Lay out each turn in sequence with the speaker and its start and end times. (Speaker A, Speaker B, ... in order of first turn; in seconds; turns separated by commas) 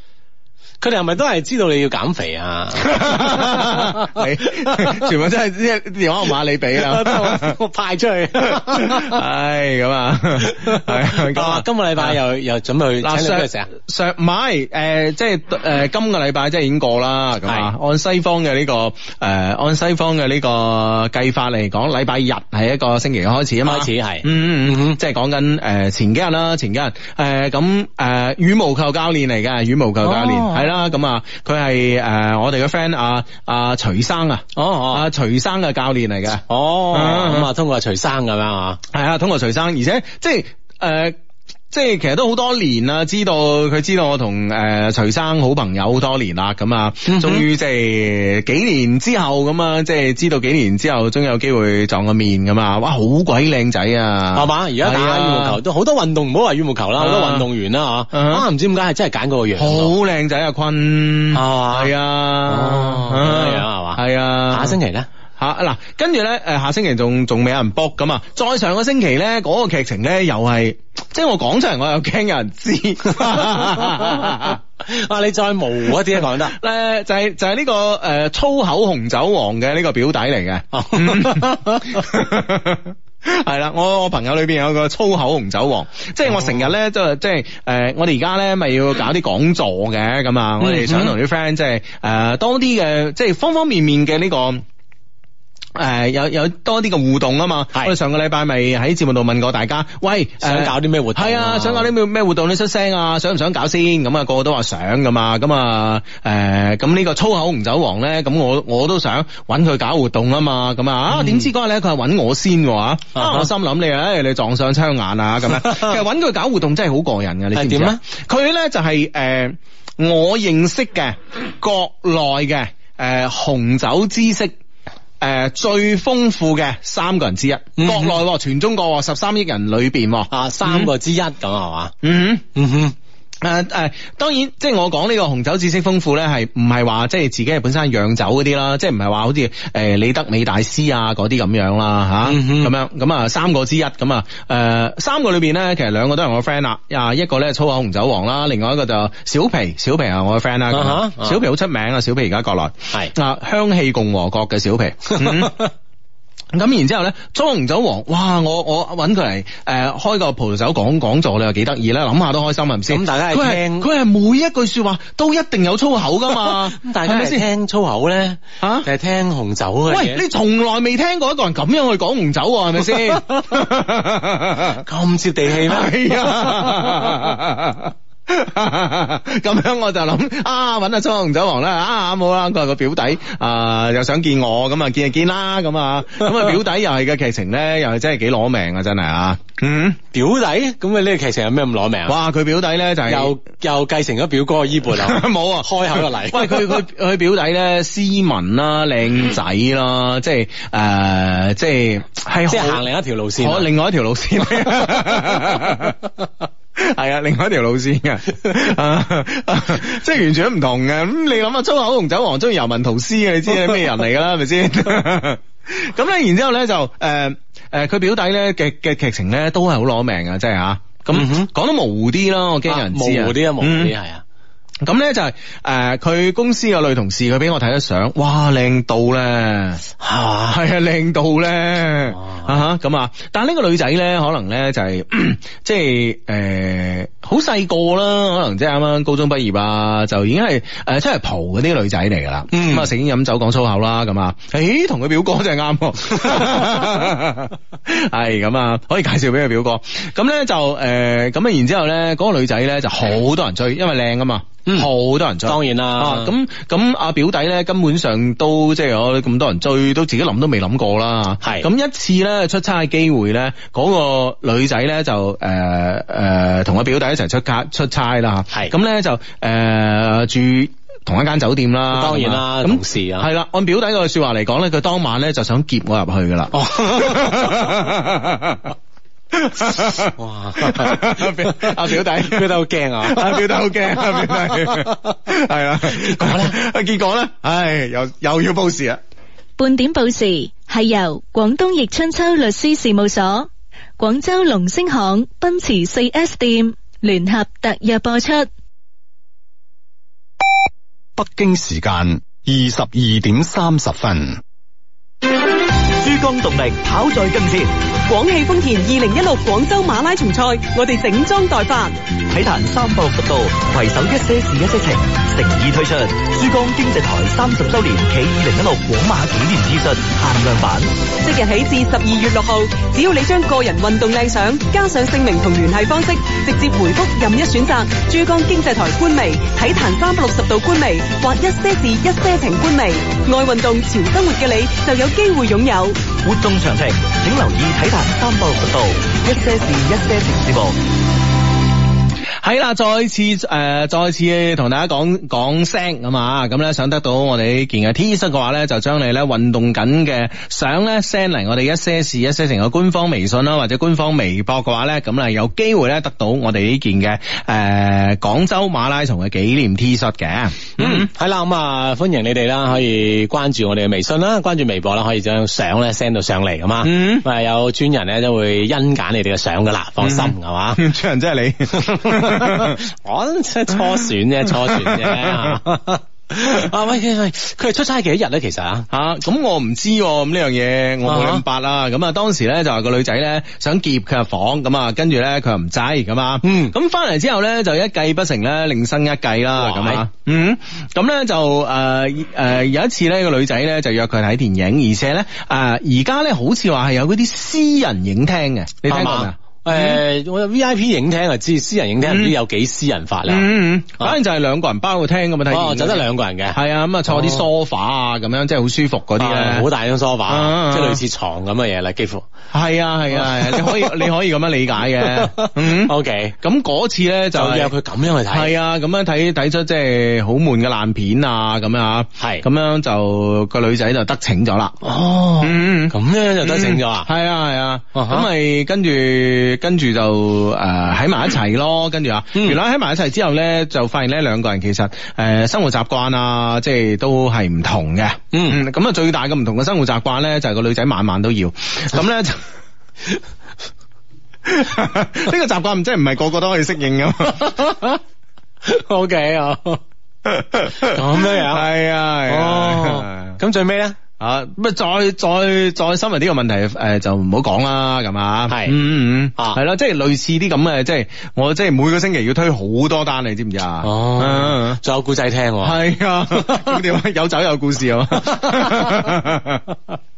Speaker A: 0.8-5.1, Speaker B: 2.9-7.5, Speaker A: 6.7-9.2, Speaker B: 8.6-12.2, Speaker A: 10.4-13.7, Speaker B: 13.0-37.5, Speaker A: 17.4-17.7, Speaker A: 23.6-25.0, Speaker A: 30.0-30.7, Speaker A: 34.5-35.1, Speaker A: 36.5-38.8, Speaker B: 38.9-41.1, Speaker B: 41.7-55.6, Speaker A: 47.0-47.5, Speaker A: 54.3-59.9, Speaker B: 57.0-57.5, Speaker B: 58.1-58.5, Speaker B: 59.6-64.8, Speaker A: 61.3-61.9, Speaker A: 62.5-65.1, Speaker B: 65.4-74.6, Speaker A: 73.3-76.5, Speaker B: 76.3-94.6, Speaker A: 80.7-82.1, Speaker A: 86.3-86.6, Speaker A: 90.6-91.1, Speaker B: 95.7-124.5, Speaker A: 100.4-101.9, Speaker A: 111.1-111.5, Speaker A: 113.1-113.5, Speaker A: 115.6-115.9, Speaker A: 117.5-118.0, Speaker B: 125.2-130.9, Speaker A: 127.8-128.2, Speaker A: 130.3-131.9, Speaker B: 132.0-132.5, Speaker A: 132.5-132.9, Speaker B: 133.4-155.6, Speaker A: 142.2-142.7, Speaker A: 150.7-151.4, Speaker A: 155.1-155.7, Speaker B: 156.5-167.4, Speaker A: 162.9-163.9, Speaker A: 166.3-170.2, Speaker B: 168.6-168.9, Speaker B: 169.9-174.8, Speaker A: 172.9-173.4, Speaker A: 174.8-177.1, Speaker B: 175.5-190.0, Speaker A: 190.1-192.1, Speaker B: 192.1-193.3, Speaker A: 193.1-196.8, Speaker B: 194.9-202.8, Speaker A: 202.5-203.7, Speaker B: 203.4-206.0, Speaker B: 206.8-223.9, Speaker A: 221.1-221.5, Speaker A: 222.7-224.2, Speaker B: 224.8-229.8, Speaker A: 230.0-230.6, Speaker B: 230.5-278.7, Speaker A: 232.1-232.5, Speaker A: 242.5-242.9, Speaker A: 255.4-256.3, Speaker A: 261.4-261.7, Speaker A: 271.9-273.3, Speaker A: 276.5-277.7, Speaker B: 279.3-282.5, Speaker A: 280.1-283.4, Speaker B: 283.0-289.0, Speaker A: 284.0-285.1, Speaker A: 285.9-286.6, Speaker C: 289.6-298.5, Speaker D: 301.2-304.4, Speaker E: 305.8-307.7, Speaker F: 308.1-311.9, Speaker E: 312.3-320.9, Speaker F: 321.2-336.0, Speaker E: 336.2-340.8, Speaker B: 342.4-361.1, Speaker A: 360.8-370.8, Speaker B: 366.8-367.2, Speaker B: 370.0-372.8, Speaker A: 371.7-378.9, Speaker B: 373.7-375.6, Speaker B: 378.9-400.0, Speaker A: 381.0-381.4, Speaker A: 386.4-386.7, Speaker A: 389.6-390.0, Speaker A: 398.9-404.2, Speaker B: 402.0-402.4, Speaker B: 403.3-409.7, Speaker A: 405.5-406.6, Speaker A: 407.1-407.4, Speaker A: 409.2-412.2, Speaker B: 410.3-411.0, Speaker B: 412.5-417.7, Speaker A: 413.1-414.1, Speaker A: 415.0-416.4, Speaker A: 417.3-418.5, Speaker B: 418.3-424.8, Speaker A: 422.2-422.4, Speaker A: 424.8-427.1, Speaker B: 425.4-442.4, Speaker A: 427.9-428.3, Speaker A: 438.3-438.6, Speaker B: 444.4-447.8, Speaker A: 447.4-448.0, Speaker A: 448.6-449.8, Speaker B: 450.2-453.4, Speaker A: 450.8-451.7, Speaker A: 452.3-454.0, Speaker B: 454.2-464.8, Speaker A: 458.5-458.8, Speaker A: 463.8-465.8, Speaker B: 465.6-469.6, Speaker A: 466.4-466.7, Speaker A: 468.1-469.1